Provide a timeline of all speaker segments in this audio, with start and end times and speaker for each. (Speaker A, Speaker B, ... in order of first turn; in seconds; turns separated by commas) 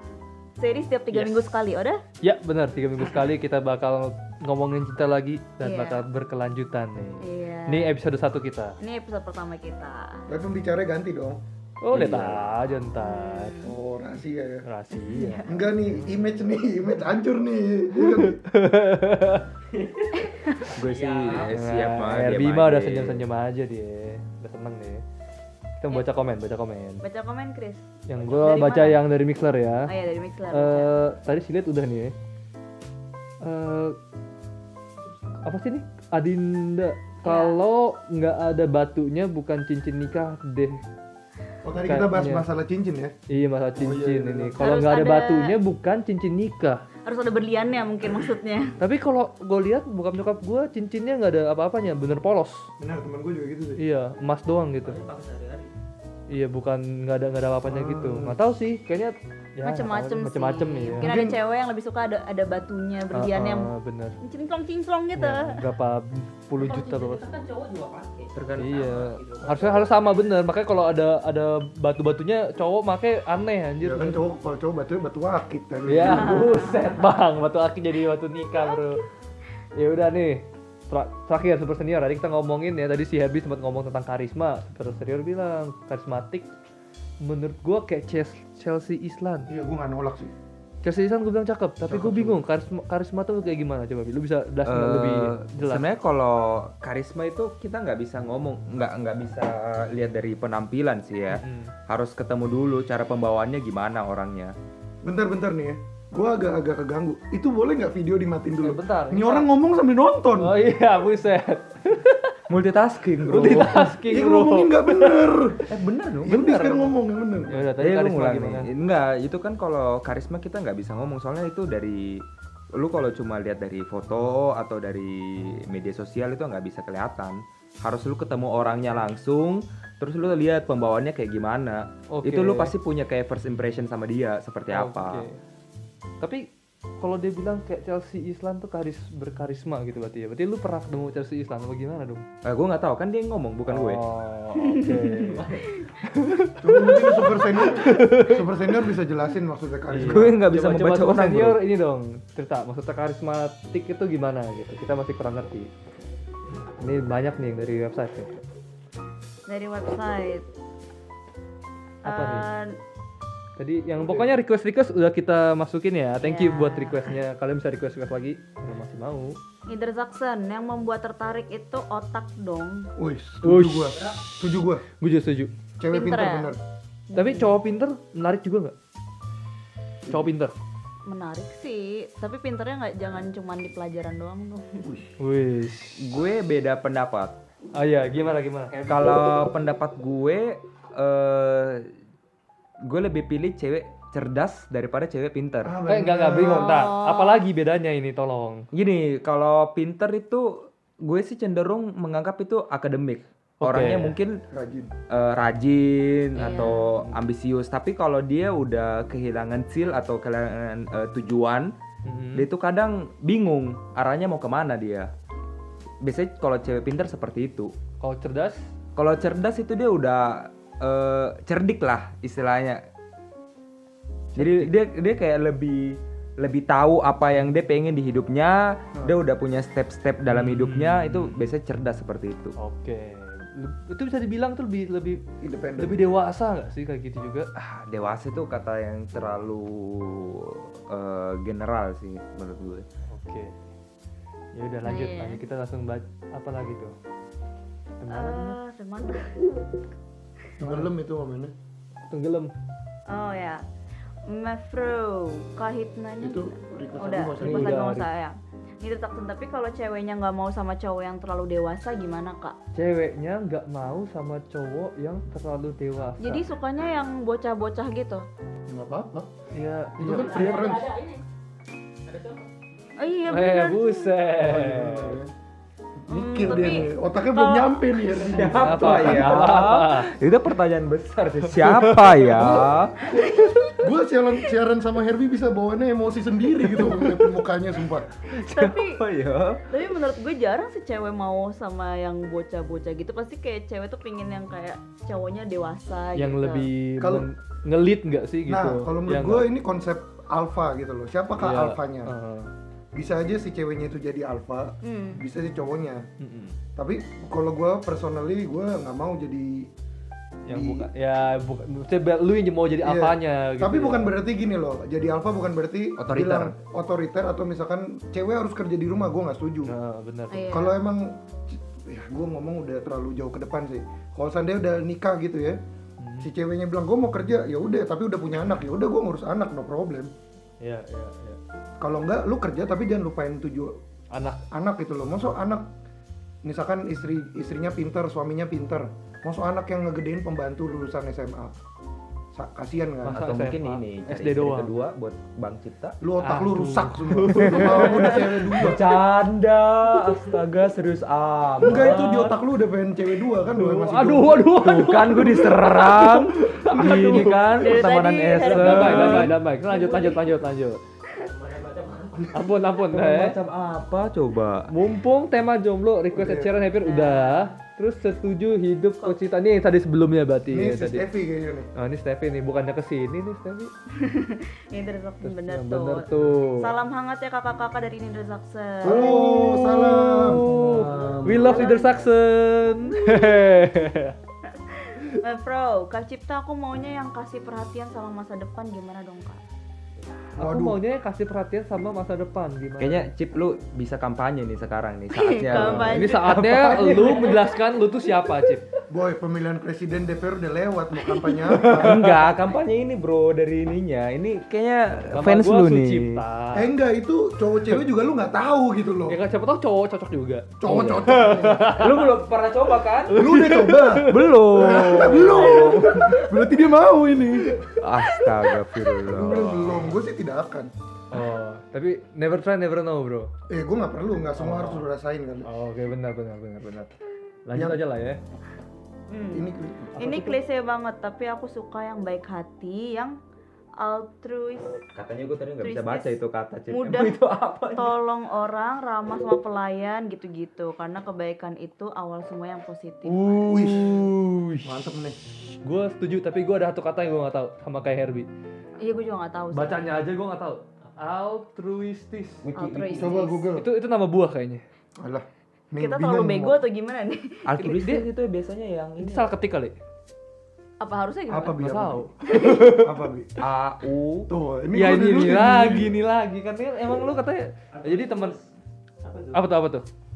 Speaker A: 0.6-2.0, Speaker B: 2.2-8.8, Speaker A: 5.6-6.0, Speaker A: 7.2-7.9, Speaker A: 8.8-10.2, Speaker C: 10.3-11.4, Speaker B: 11.8-13.6, Speaker D: 11.9-12.5, Speaker A: 13.0-13.7, Speaker C: 13.6-14.6, Speaker B: 14.6-15.4, Speaker A: 15.0-15.4, Speaker C: 15.4-18.4, Speaker B: 18.0-19.4, Speaker E: 19.7-20.2, Speaker A: 20.2-20.6, Speaker D: 20.7-23.2, Speaker E: 20.8-21.5, Speaker B: 21.5-25.0, Speaker B: 25.8-27.0, Speaker A: 27.0-29.0, Speaker B: 28.1-29.9, Speaker A: 29.9-31.0, Speaker B: 30.5-32.1, Speaker B: 33.4-34.0, Speaker B: 35.4-40.8, Speaker A: 37.2-37.6, Speaker C: 41.6-43.1, Speaker B: 41.8-42.5, Speaker B: 43.3-46.8, Speaker C: 43.8-44.6, Speaker A: 44.6-45.6, Speaker A: 47.0-48.7, Speaker B: 48.8-52.7, Speaker C: 52.8-53.8, Speaker B: 53.8-55.0, Speaker E: 54.8-55.7, Speaker B: 56.3-61.1, Speaker C: 57.7-58.4, Speaker A: 59.6-63.7, Speaker C: 61.0-61.4, Speaker B: 63.1-64.2, Speaker A: 64.2-65.6, Speaker B: 65.2-67.2, Speaker E: 66.6-69.9, Speaker D: 68.3-68.9, Speaker B: 68.6-74.2, Speaker C: 73.8-76.6, Speaker B: 75.9-79.0, Speaker A: 76.1-76.8, Speaker B: 79.8-86.5, Speaker B: 87.2-89.5, Speaker C: 89.5-90.3, Speaker B: 90.8-95.9, Speaker C: 91.9-92.4, Speaker D: 94.7-104.5, Speaker B: 101.3-101.7, Speaker C: 105.0-110.6, Speaker B: 108.6-109.5, Speaker B: 110.4-112.3, Speaker D: 112.5-113.9, Speaker B: 113.3-115.4, Speaker C: 113.3-115.7, Speaker D: 115.7-116.8, Speaker C: 116.2-117.7, Speaker B: 117.5-118.7, Speaker D: 117.8-135.2, Speaker B: 132.1-132.7, Speaker B: 134.7-135.4, Speaker B: 136.2-136.5, Speaker B: 137.0-142.2, Speaker D: 142.4-144.0, Speaker B: 143.7-148.5, Speaker A: 144.6-145.4, Speaker C: 146.6-150.4, Speaker B: 149.9-155.7, Speaker D: 150.0-151.6, Speaker B: 156.8-158.4, Speaker A: 159.5-160.5, Speaker A: 162.1-162.8, Speaker B: 162.1-162.5, Speaker B: 163.6-169.4, Speaker C: 164.0-164.3, Speaker A: 166.2-167.1, Speaker A: 169.7-172.9, Speaker C: 173.0-174.8, Speaker B: 173.4-174.0, Speaker B: 175.0-175.5, Speaker C: 175.8-176.6, Speaker A: 175.9-176.5, Speaker A: 177.1-177.5, Speaker B: 177.1-178.7, Speaker B: 180.1-180.5, Speaker A: 181.1-184.8, Speaker C: 184.8-185.1, Speaker B: 185.2-186.0, Speaker D: 186.0-187.3, Speaker B: 187.7-188.7, Speaker D: 188.8-191.9, Speaker D: 192.8-195.8, Speaker C: 195.6-196.9, Speaker B: 195.9-198.7, Speaker A: 196.4-197.4, Speaker D: 198.7-204.4, Speaker B: 203.6-204.2, Speaker C: 204.5-204.9, Speaker D: 205.1-211.7, Speaker A: 206.4-206.9, Speaker B: 206.6-207.1, Speaker B: 212.0-212.5, Speaker D: 212.3-215.1, Speaker D: 216.0-217.7, Speaker B: 218.0-218.6, Speaker D: 218.9-222.8, Speaker B: 224.3-224.7, Speaker D: 224.3-232.6, Speaker B: 230.3-231.4, Speaker B: 232.6-235.2, Speaker C: 235.4-236.1, Speaker B: 235.8-237.5, Speaker D: 237.6-242.8, Speaker B: 243.1-243.6, Speaker B: 244.5-246.9, Speaker A: 244.8-245.4, Speaker B: 248.0-248.6, Speaker A: 248.1-249.6, Speaker C: 250.6-251.5, Speaker B: 250.6-250.9, Speaker B: 252.1-252.5, Speaker A: 253.1-253.6, Speaker A: 254.3-262.6, Speaker C: 256.2-257.9, Speaker B: 257.4-258.1, Speaker B: 262.7-266.4, Speaker A: 266.2-268.2, Speaker C: 268.7-269.3, Speaker B: 269.5-270.7, Speaker C: 270.0-270.9, Speaker E: 270.1-271.2, Speaker E: 272.1-272.4, Speaker A: 273.0-274.2, Speaker B: 273.3-275.2, Speaker C: 274.4-275.3, Speaker C: 276.0-279.5, Speaker A: 276.1-278.3, Speaker D: 278.3-283.1, Speaker B: 278.6-280.1, Speaker B: 281.6-282.6, Speaker C: 283.8-288.1, Speaker D: 288.4-289.6, Speaker A: 288.5-289.0, Speaker A: 289.7-296.7, Speaker B: 296.1-299.5, Speaker C: 297.0-297.3, Speaker C: 298.5-302.1, Speaker B: 301.4-302.5, Speaker C: 302.9-306.1, Speaker A: 304.8-305.2, Speaker B: 306.2-306.6, Speaker C: 306.8-309.7, Speaker B: 310.4-314.1, Speaker C: 310.5-310.9, Speaker C: 312.8-319.7, Speaker D: 316.0-316.5, Speaker B: 319.6-320.4, Speaker A: 320.3-320.8, Speaker C: 320.5-325.6, Speaker B: 326.0-326.3, Speaker C: 326.2-330.1, Speaker B: 330.6-331.4, Speaker C: 331.8-333.8, Speaker B: 334.1-334.4, Speaker C: 334.5-335.7, Speaker C: 336.4-341.6, Speaker C: 342.3-343.2, Speaker B: 343.0-344.7, Speaker D: 343.1-346.0, Speaker C: 346.0-348.9, Speaker B: 346.2-348.7, Speaker D: 347.4-352.3, Speaker C: 351.6-354.6, Speaker B: 351.6-352.3, Speaker B: 353.4-357.8, Speaker D: 354.6-359.4, Speaker A: 357.6-360.3, Speaker B: 358.4-360.8, Speaker E: 361.2-362.4, Speaker B: 362.3-363.4, Speaker D: 362.9-364.7, Speaker B: 364.7-371.0, Speaker C: 366.1-366.5, Speaker A: 366.8-367.5, Speaker C: 370.5-371.7, Speaker B: 371.8-373.7, Speaker A: 373.9-379.1, Speaker B: 375.2-376.7, Speaker C: 378.8-381.1, Speaker B: 378.8-384.1, Speaker D: 380.6-381.6, Speaker A: 381.3-382.1, Speaker A: 384.6-389.4, Speaker C: 390.4-390.8, Speaker B: 390.4-393.1, Speaker D: 392.8-397.3, Speaker A: 395.1-396.4, Speaker B: 395.5-398.7, Speaker C: 398.9-402.2, Speaker D: 401.6-406.2, Speaker B: 405.1-406.7, Speaker C: 406.5-409.2, Speaker B: 409.1-412.2, Speaker C: 410.6-411.8, Speaker D: 410.6-413.2, Speaker B: 413.0-416.4, Speaker C: 413.1-417.6, Speaker D: 414.1-415.9, Speaker D: 417.8-419.9, Speaker C: 419.1-420.7, Speaker B: 421.1-423.3, Speaker C: 423.5-425.5, Speaker B: 424.4-424.9, Speaker B: 425.4-426.9, Speaker B: 427.4-428.2, Speaker C: 427.5-427.8, Speaker A: 429.1-429.4, Speaker C: 429.3-429.9, Speaker B: 429.9-430.4, Speaker A: 430.0-433.1, Speaker A: 433.8-434.8, Speaker D: 434.9-437.9, Speaker A: 435.6-436.2, Speaker A: 436.7-437.2, Speaker A: 437.7-443.4, Speaker B: 443.1-444.6, Speaker C: 443.2-444.1, Speaker C: 444.6-445.2, Speaker B: 445.6-448.3, Speaker A: 448.8-449.9, Speaker B: 449.5-452.4, Speaker D: 452.4-453.2, Speaker A: 452.6-453.5, Speaker C: 452.9-453.7, Speaker B: 453.5-454.6, Speaker C: 455.0-456.6, Speaker A: 455.8-457.4, Speaker D: 457.4-459.3, Speaker B: 457.6-458.1, Speaker B: 459.0-459.8, Speaker A: 460.8-461.7, Speaker C: 461.3-463.3, Speaker B: 461.6-462.9, Speaker D: 463.4-464.3, Speaker C: 464.3-465.9, Speaker B: 464.7-468.4, Speaker E: 467.7-469.5, Speaker B: 469.3-469.9